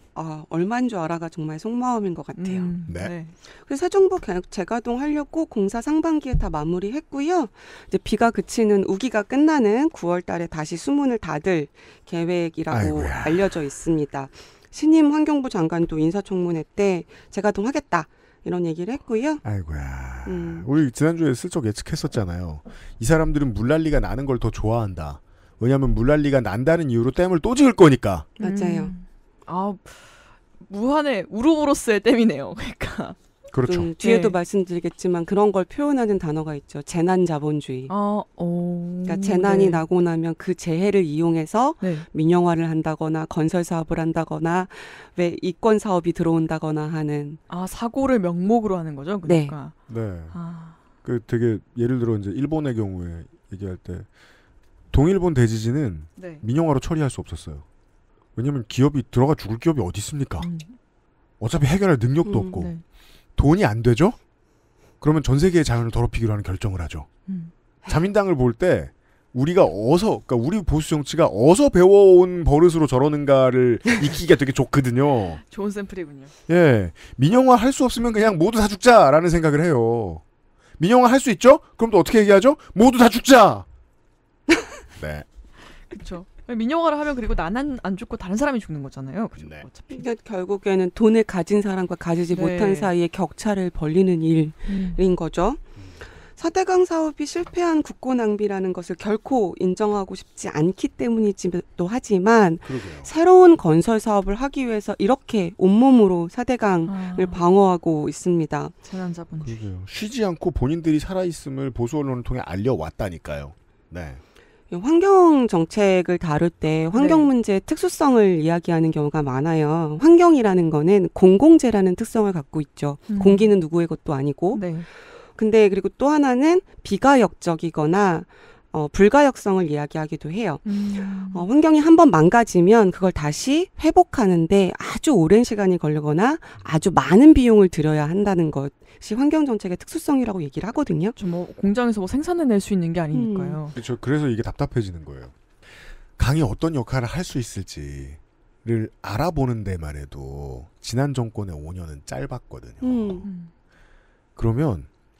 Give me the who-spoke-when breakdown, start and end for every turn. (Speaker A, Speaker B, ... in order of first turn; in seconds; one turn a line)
Speaker A: 0.1-2.7
Speaker B: 2.4-3.4
Speaker C: 2.9-3.1
Speaker A: 3.6-19.4
Speaker C: 12.7-13.5
Speaker C: 19.4-28.3
Speaker A: 20.2-20.7
Speaker B: 28.4-30.1
Speaker A: 28.4-28.9
Speaker B: 30.6-33.2
Speaker C: 33.5-33.9
Speaker A: 33.7-37.9
Speaker B: 34.0-34.4
Speaker B: 37.9-39.8
Speaker A: 39.0-47.4
Speaker B: 41.8-42.1
Speaker B: 47.5-49.7
Speaker A: 49.3-49.5
Speaker C: 49.9-50.4
Speaker B: 50.3-50.8
Speaker C: 51.0-54.1
Speaker C: 54.9-57.6
Speaker B: 56.2-56.5
Speaker C: 58.4-60.5
Speaker B: 60.4-60.8
Speaker C: 61.4-62.7
Speaker A: 62.2-62.6
Speaker B: 62.6-62.8
Speaker C: 63.4-64.2
Speaker C: 65.0-67.1
Speaker B: 67.3-67.5
Speaker C: 67.9-75.4
Speaker B: 75.5-76.3
Speaker C: 76.5-80.2
Speaker C: 80.8-83.7
Speaker C: 85.0-85.3
Speaker B: 85.9-90.0
Speaker C: 89.4-89.7
Speaker A: 89.9-95.6
Speaker B: 92.3-92.9
Speaker B: 94.7-95.0
Speaker A: 96.4-108.7
Speaker C: 102.6-103.1
Speaker B: 106.9-107.4
Speaker B: 108.8-109.6
Speaker C: 109.4-114.2
Speaker A: 114.7-124.8
Speaker B: 117.0-117.3
Speaker B: 123.1-123.5
Speaker B: 124.5-124.9
Speaker A: 125.4-141.2
Speaker B: 130.7-131.5
Speaker B: 141.2-143.8
Speaker A: 143.1-143.6
Speaker C: 143.7-145.3
Speaker C: 146.2-153.3
Speaker A: 152.8-153.3
Speaker B: 153.2-153.5
Speaker C: 154.4-154.9